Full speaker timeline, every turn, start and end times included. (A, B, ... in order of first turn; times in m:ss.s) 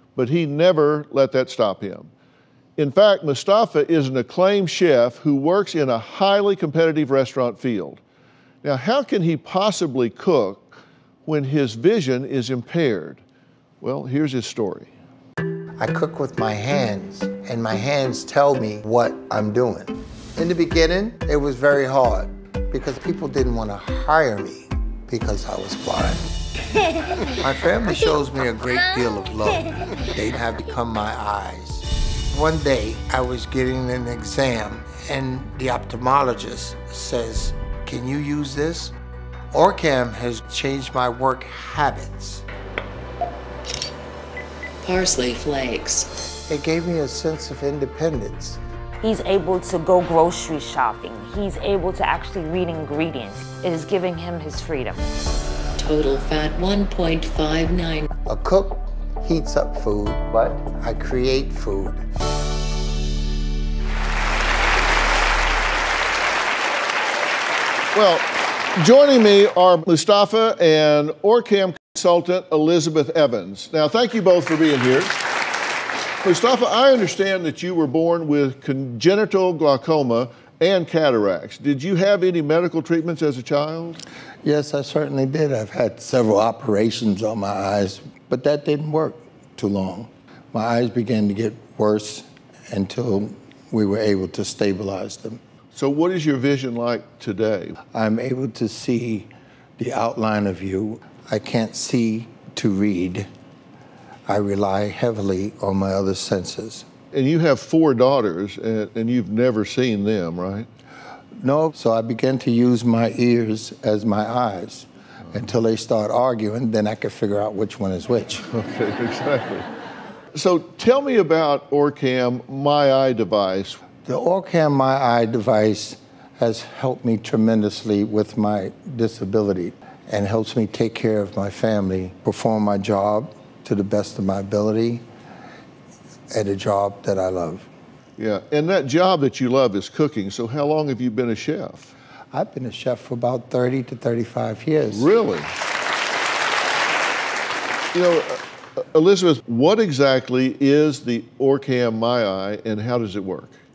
0:00.2-0:02.1 A
0:02.8-0:08.0 A
0:08.6-0:13.2 A
0:13.8-0:14.9 A
0:15.8-0:26.3 B
0:27.3-0:38.9 B
0:39.5-0:42.4 B
0:44.8-0:46.1 C
0:46.5-0:48.6 B
0:49.0-0:55.0 D
0:55.8-0:58.1 C
0:58.2-1:02.0 B
1:07.9-1:15.2 A
1:16.2-1:24.0 A
1:24.4-1:35.4 B
1:35.7-1:37.7 A
1:37.9-1:43.3 B
1:44.3-1:46.8 B
1:47.1-1:50.7 A
1:51.4-1:58.4 B
1:58.5-1:59.7 A
2:00.3-2:03.8 A
2:04.0-2:15.0 B
2:16.3-2:17.7 B
2:18.2-2:21.9 A
2:22.3-2:25.1 B
2:24.9-2:25.5 A
2:27.9-2:28.4 A
2:28.9-2:33.6 A